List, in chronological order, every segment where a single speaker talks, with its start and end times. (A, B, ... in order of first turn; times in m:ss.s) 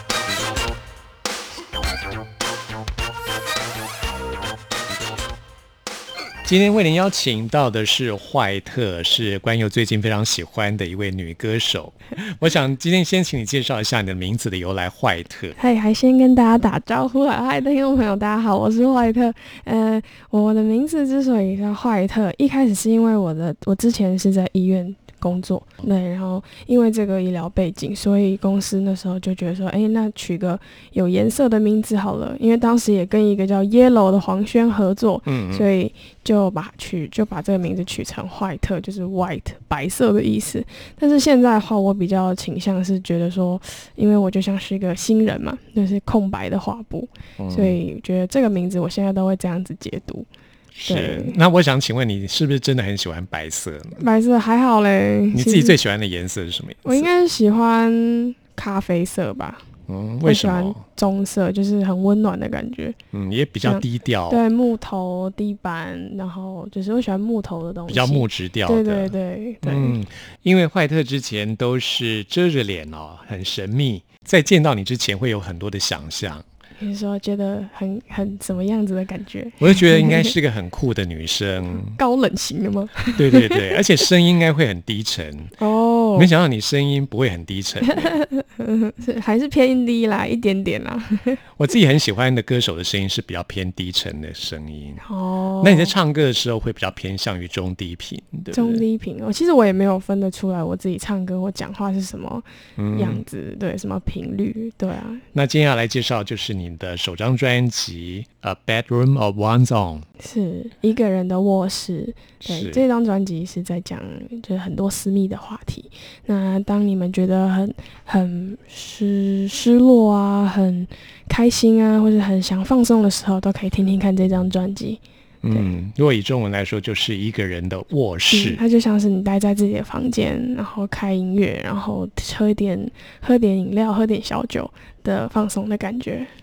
0:06.4-0:15.5 A
0:15.6-0:50.3 B
0:35.2-0:35.6 A
0:47.4-0:47.8 A
0:50.8-0:54.0 A
0:50.9-0:51.4 B
0:54.0-0:55.8 B
0:55.3-0:57.1 A
0:56.8-0:59.7 B
0:59.9-1:00.8 A
1:00.2-1:03.0 B
1:03.1-1:04.4 A
1:03.6-1:10.0 B
1:07.9-1:09.1 A
1:09.6-1:16.4 A
1:16.8-1:20.3 B
1:19.6-1:21.9 A
1:21.8-1:23.8 B
1:23.2-1:25.5 A
1:25.6-1:26.3 B
1:26.2-1:28.1 A
1:27.9-1:31.4 B
1:31.6-1:35.0 A
1:35.0-1:35.9 B
1:35.6-1:38.8 A
1:38.5-1:45.2 B
1:42.8-1:43.2 A
1:45.3-1:50.0 A
1:50.2-2:05.7 B
1:52.4-1:52.8 A
2:05.4-2:08.6 A
2:08.3-2:16.3 B